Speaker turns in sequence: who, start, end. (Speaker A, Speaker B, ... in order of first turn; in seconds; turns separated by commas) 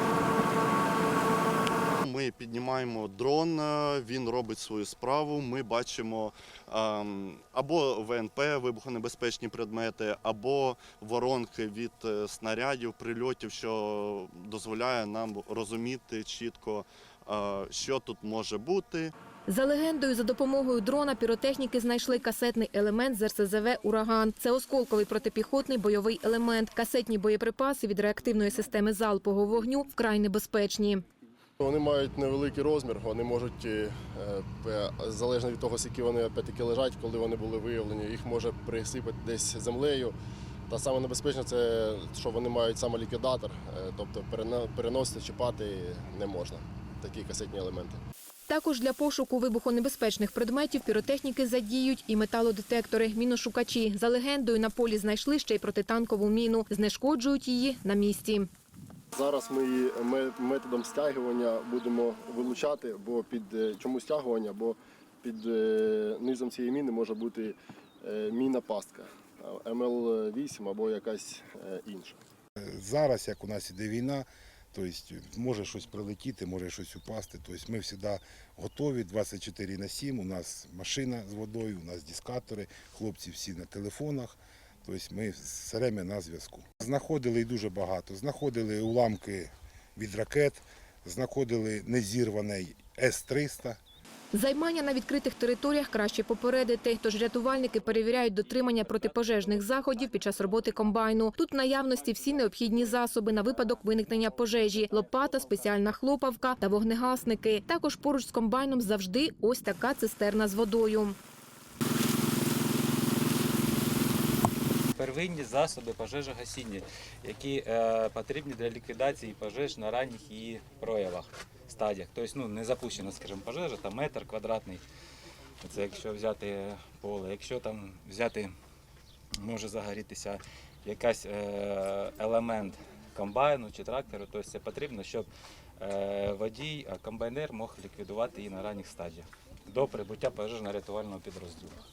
Speaker A: 2.0-19.1, Speaker B: 19.5-31.0, Speaker C: 31.6-40.1, Speaker C: 40.7-48.0, Speaker B: 48.5-58.5, Speaker C: 59.1-72.2, Speaker D: 72.6-93.8, Speaker B: 94.3-111.2, Speaker E: 115.0-124.8, Speaker E: 125.6-128.5, Speaker E: 129.4-135.3, Speaker E: 135.8-141.8